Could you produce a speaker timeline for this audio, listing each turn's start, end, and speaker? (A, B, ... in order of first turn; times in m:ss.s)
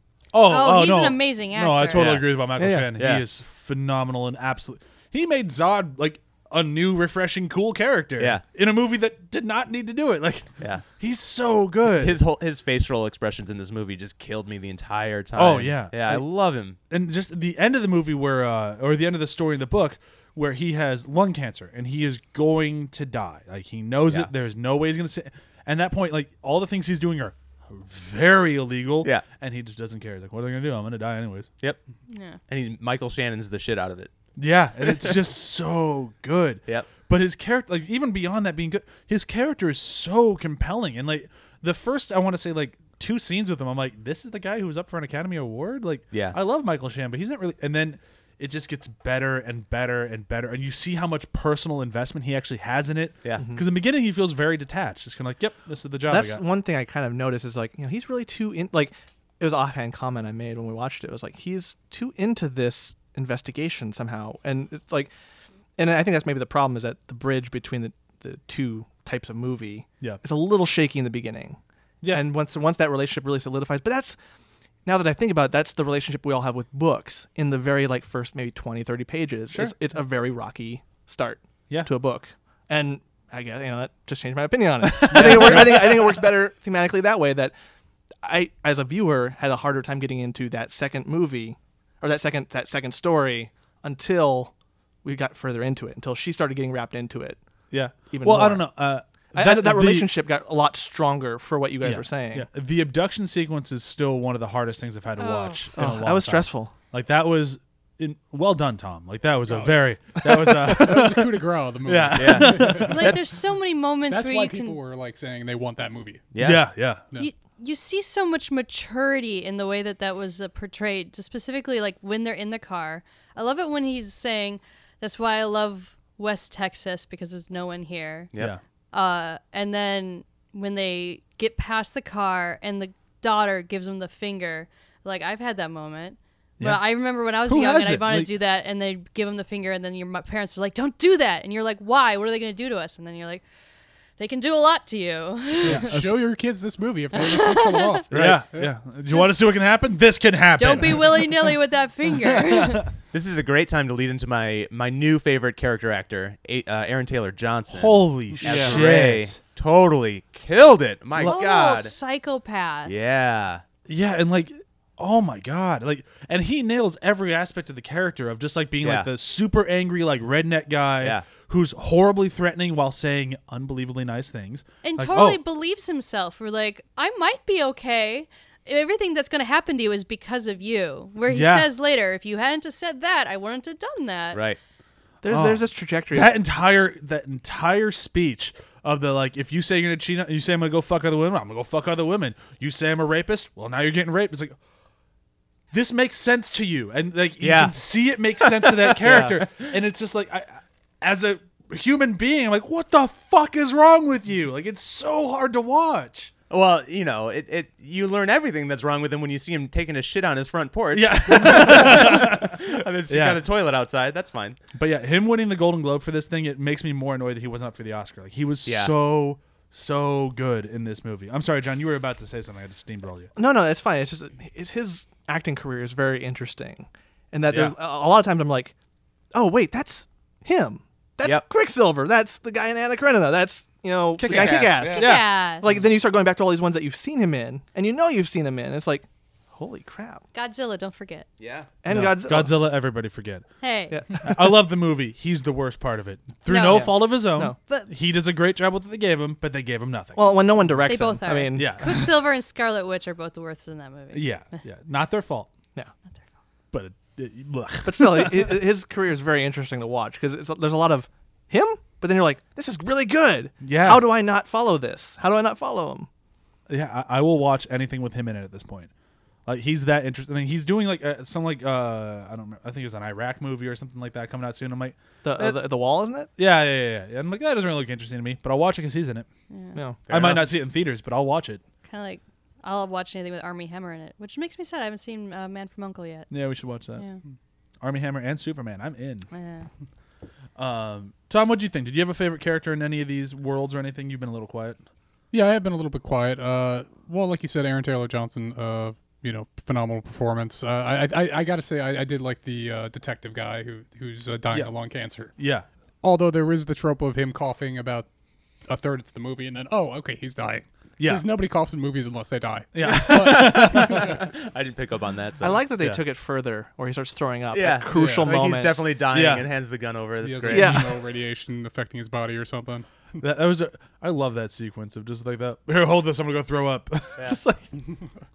0:00.3-0:12.2 A
0:00.4-0:02.1 B
0:01.9-0:02.4 C
0:02.6-0:02.9 D
0:02.9-0:03.2 C
0:08.2-0:08.4 C
0:10.6-0:10.8 C
0:11.9-0:16.8 C
0:15.4-0:16.2 A
0:16.9-0:31.5 A
0:32.1-0:32.4 B
0:32.5-0:34.1 C
0:34.4-0:56.4 A
0:46.1-0:46.4 C
0:56.1-1:05.1 D
1:05.8-1:11.6 D
1:12.1-1:14.2 D
1:14.8-1:27.5 D
1:24.8-1:26.2 A
1:28.2-1:34.5 D
1:35.0-1:37.4 D
1:37.7-1:40.1 A
1:38.1-1:38.7 D
1:39.3-1:42.5 D
1:41.8-1:53.2 A
1:45.2-1:45.7 B
1:45.8-1:46.7 D
1:49.5-1:53.1 E
1:50.2-1:50.7 D
1:52.1-1:53.2 C
1:52.7-1:54.8 B
1:54.1-1:56.3 E
1:56.3-1:56.6 C
1:56.4-1:57.0 A
1:57.1-2:08.3 B
2:08.4-2:08.6 A
2:08.9-2:23.4 B
2:16.6-2:18.3 A
2:24.2-2:26.0 B
2:25.6-2:28.7 E
2:25.6-2:26.2 A
2:27.1-2:28.0 B
2:28.1-2:31.5 A
2:29.1-2:29.4 B
2:30.6-2:32.9 B
2:32.4-2:32.9 A
2:33.1-2:41.9 C
2:37.7-2:39.4 A
2:38.4-2:38.8 D
2:41.2-2:42.9 B
2:42.8-2:43.6 C
2:43.9-2:55.4 A
2:48.8-2:49.1 C
2:51.0-2:51.3 C
2:54.8-3:04.4 B
3:01.3-3:01.7 A
3:04.3-3:04.6 C
3:05.2-3:06.3 D
3:05.3-3:14.6 A
3:15.7-3:26.3 A
3:17.4-3:17.8 C
3:18.4-3:19.7 C
3:26.5-3:34.6 C
3:30.9-3:33.4 A
3:34.7-3:43.3 A
3:38.6-3:38.9 C
3:43.4-3:48.7 D
3:47.5-3:47.8 A
3:49.3-4:00.2 D
3:54.2-3:55.7 A
3:54.2-3:55.1 C
3:54.9-3:55.7 B
4:00.3-4:01.3 B
4:01.4-4:01.7 C
4:01.8-4:02.6 D
4:01.9-4:03.4 A
4:03.6-4:04.0 B
4:03.9-4:04.5 D
4:04.2-4:10.4 A
4:06.4-4:07.9 B
4:06.6-4:07.6 D
4:10.1-4:12.0 D
4:10.8-4:14.6 B
4:11.5-4:12.1 A
4:14.1-4:15.5 A
4:16.7-4:18.6 A
4:17.8-4:26.1 D
4:23.6-4:24.1 A
4:26.7-4:28.9 A
4:29.4-4:35.6 A
4:35.2-4:36.3 D
4:36.4-4:39.3 A
4:39.5-4:39.8 B
4:39.7-4:40.0 D
4:40.1-4:40.5 C
4:40.1-4:41.6 A
4:41.8-4:46.3 B
4:46.3-4:47.1 A
4:46.9-4:47.2 B
4:47.8-4:49.3 A
4:49.3-4:49.7 B
4:50.6-4:54.8 A
4:55.3-5:05.4 E
5:05.3-5:05.7 A
5:06.0-5:08.1 E
5:08.6-5:14.2 E
5:11.0-5:11.3 A
5:12.7-5:14.2 A
5:12.8-5:15.6 C
5:15.4-5:18.8 D
5:17.5-5:20.9 C
5:17.9-5:18.3 E
5:19.1-5:19.5 A
5:20.2-5:23.1 E
5:20.5-5:21.0 D
5:23.2-5:27.7 A